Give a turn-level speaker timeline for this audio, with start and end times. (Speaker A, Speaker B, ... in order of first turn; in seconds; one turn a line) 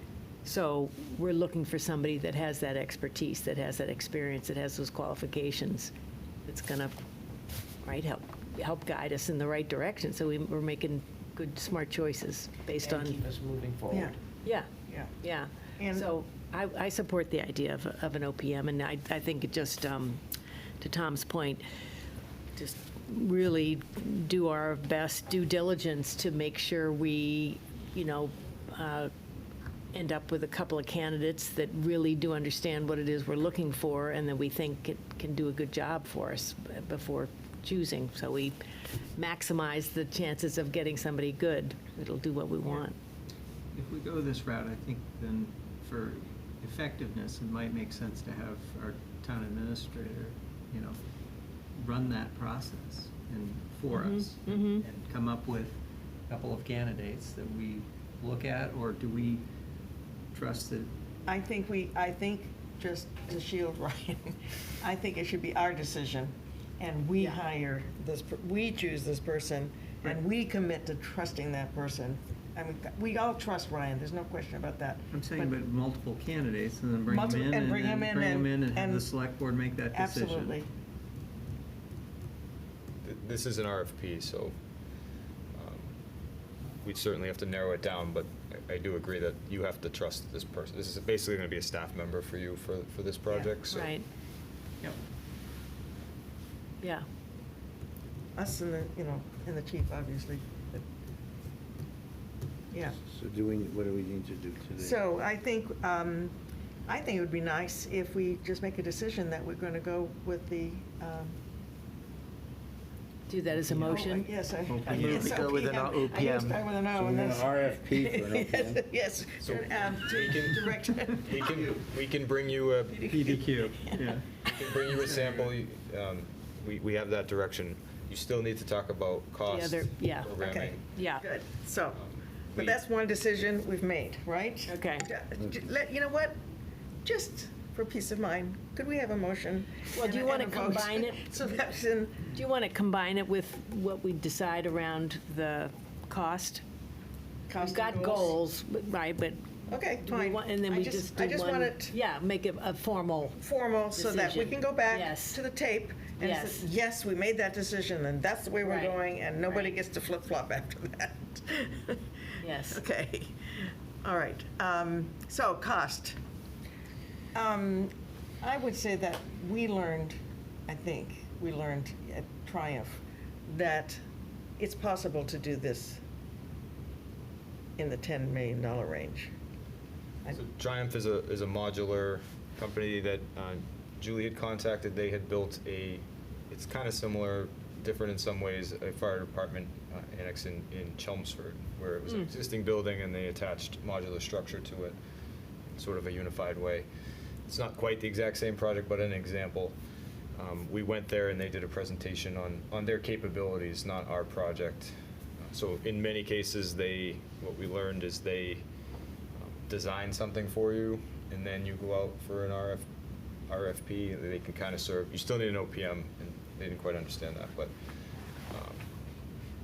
Speaker A: 0.4-5.9
Speaker A: 6.5-7.0
Speaker A: 7.8-13.3
Speaker B: 12.8-14.1
Speaker C: 13.9-14.2
Speaker A: 15.2-20.2
Speaker C: 15.8-16.1
Speaker A: 20.8-21.6
Speaker A: 22.6-29.1
Speaker A: 29.9-38.6
Speaker A: 39.2-43.0
Speaker D: 43.7-51.0
Speaker D: 51.8-55.8
Speaker A: 53.9-54.8
Speaker D: 56.3-59.5
Speaker D: 60.3-60.9
Speaker C: 61.3-75.6
Speaker D: 75.1-80.6
Speaker C: 77.1-79.1
Speaker C: 79.9-80.7
Speaker E: 83.0-84.5
Speaker E: 85.5-85.9
Speaker E: 86.8-93.9
Speaker C: 93.3-93.5
Speaker A: 93.7-94.0
Speaker A: 96.8-97.1
Speaker C: 98.4-100.8
Speaker F: 103.0-105.0
Speaker C: 104.8-106.3
Speaker C: 106.9-111.3
Speaker A: 113.3-114.3
Speaker D: 113.6-114.0
Speaker C: 113.8-121.8
Speaker D: 114.7-115.5
Speaker B: 114.8-116.6
Speaker F: 117.0-118.8
Speaker E: 119.4-123.1
Speaker C: 122.9-123.8
Speaker D: 123.1-125.6
Speaker E: 124.5-130.8
Speaker A: 129.5-130.4
Speaker C: 130.4-132.0
Speaker A: 130.9-131.2
Speaker E: 131.9-132.8
Speaker C: 132.6-136.4
Speaker A: 134.7-135.1
Speaker C: 137.0-142.3
Speaker A: 139.9-141.3
Speaker A: 142.3-146.6
Speaker C: 147.5-148.4
Speaker A: 147.6-149.4
Speaker C: 149.7-151.9
Speaker A: 150.0-153.4
Speaker C: 153.4-162.1
Speaker A: 153.9-155.4
Speaker A: 156.2-156.7
Speaker A: 158.6-159.7
Speaker A: 162.4-162.8
Speaker C: 162.6-166.2
Speaker C: 167.3-174.0
Speaker C: 174.6-176.0
Speaker C: 177.8-179.3
Speaker E: 180.3-195.0
Speaker E: 195.8-196.9
Speaker E: 197.5-199.8
Speaker E: 200.4-208.6
Speaker E: 209.3-212.9
Speaker E: 213.5-217.7
Speaker E: 218.5-218.9